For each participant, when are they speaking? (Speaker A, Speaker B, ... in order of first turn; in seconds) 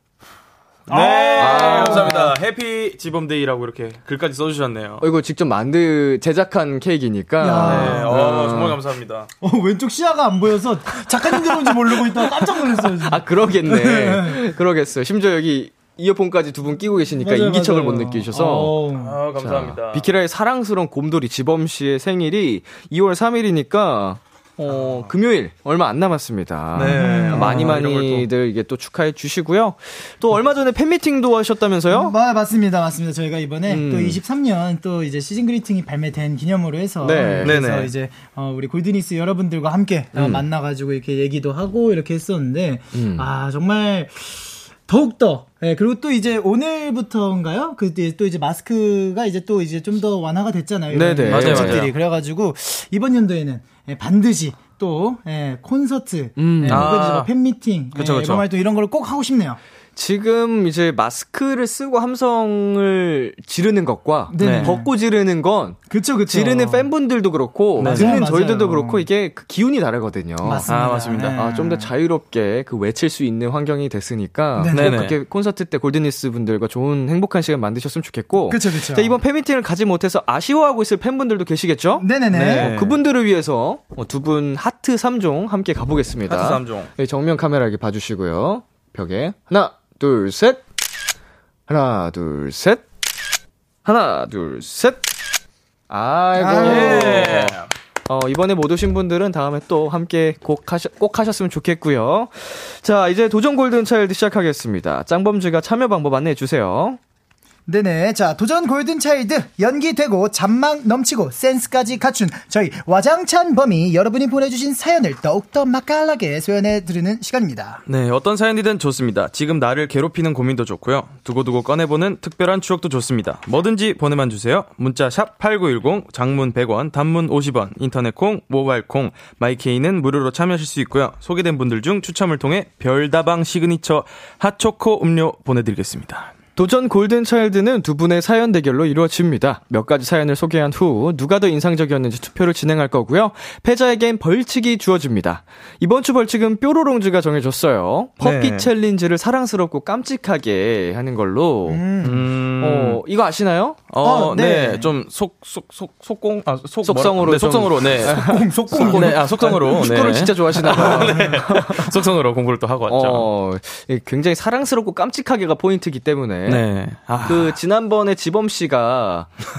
Speaker A: 0.9-2.3, 7.4-8.1, 9.4-14.4, 17.2-19.2, 26.9-27.7, 31.9-59.6, 64.3-64.9, 65.9-66.9, 67.8-69.1, 70.4-71.9, 74.6-74.9, 78.5-79.2, 82.0-82.7, 96.3-97.2, 107.7-117.8, 151.7-152.2, 154.0-154.9, 158.1-159.8, 160.8-161.4
Speaker B: 0.9-5.0, 7.6-9.3, 18.9-20.1, 24.7-25.1, 26.7-28.3, 37.4-37.9, 51.3-51.9, 56.7-57.3, 57.9-58.4, 64.4-64.7, 67.8-68.2, 70.7-71.4, 74.7-75.2, 82.3-83.0, 86.3-86.9, 96.5-97.7, 117.8-136.3, 148.2-148.7, 152.0-153.0, 153.9-163.3, 166.4-167.6
Speaker C: 1.4-2.3, 5.0-8.8, 11.6-12.0, 12.6-18.8, 19.4-32.1, 33.6-34.2, 37.0-37.6, 40.1-40.4, 42.9-43.3, 50.9-51.9, 56.4-56.9, 60.0-70.7, 71.3-90.6, 91.7-92.8, 93.8-95.1, 95.9-107.0, 136.6-151.8, 152.6-153.8, 156.8-162.0, 162.9-166.6, 167.2-169.3